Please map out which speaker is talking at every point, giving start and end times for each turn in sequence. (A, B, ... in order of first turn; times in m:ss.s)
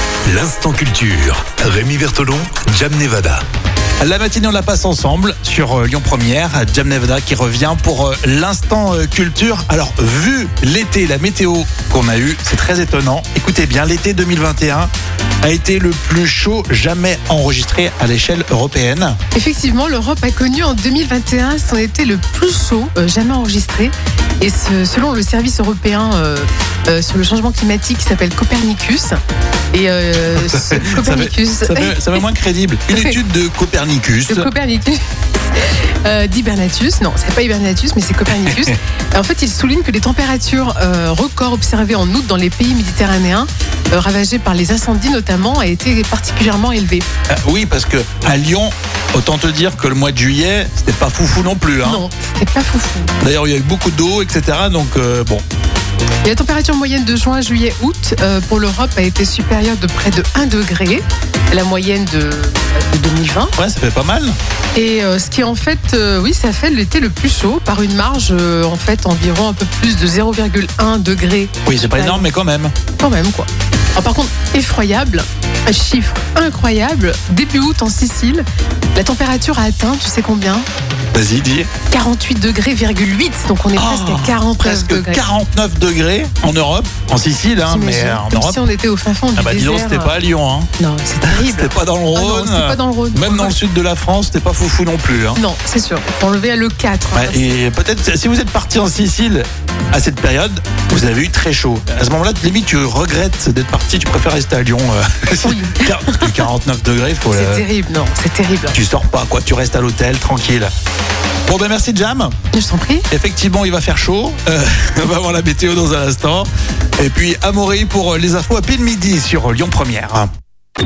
0:00.3-0:03.4 A
0:04.0-0:14.9 B
0:15.4-0:19.2 B
0:19.3-0:29.2 C
0:29.7-0:32.2 C
0:30.3-0:34.5 B
0:32.9-0:33.2 C
0:34.3-0:35.0 C
0:35.5-0:47.1 C
0:47.3-0:52.0 B
0:51.8-0:53.1 C
0:53.2-0:55.4 B
0:56.2-1:03.5 C
1:03.6-1:04.4 B
1:04.8-1:12.3 C
1:11.7-1:12.7 B
1:13.0-1:20.7 C
1:21.1-1:21.7 B
1:21.9-1:25.2 C
1:23.8-1:28.6 B
1:27.7-1:30.1 C
1:29.4-1:30.7 B
1:30.8-1:33.6 C
1:31.2-1:35.4 B
1:35.4-1:37.6 C
1:37.1-1:47.6 B
1:45.4-1:46.5 C
1:47.3-1:48.8 C
1:48.7-1:50.7 B
1:51.5-1:52.4 B
1:52.5-1:53.1 C
1:53.1-2:00.3 B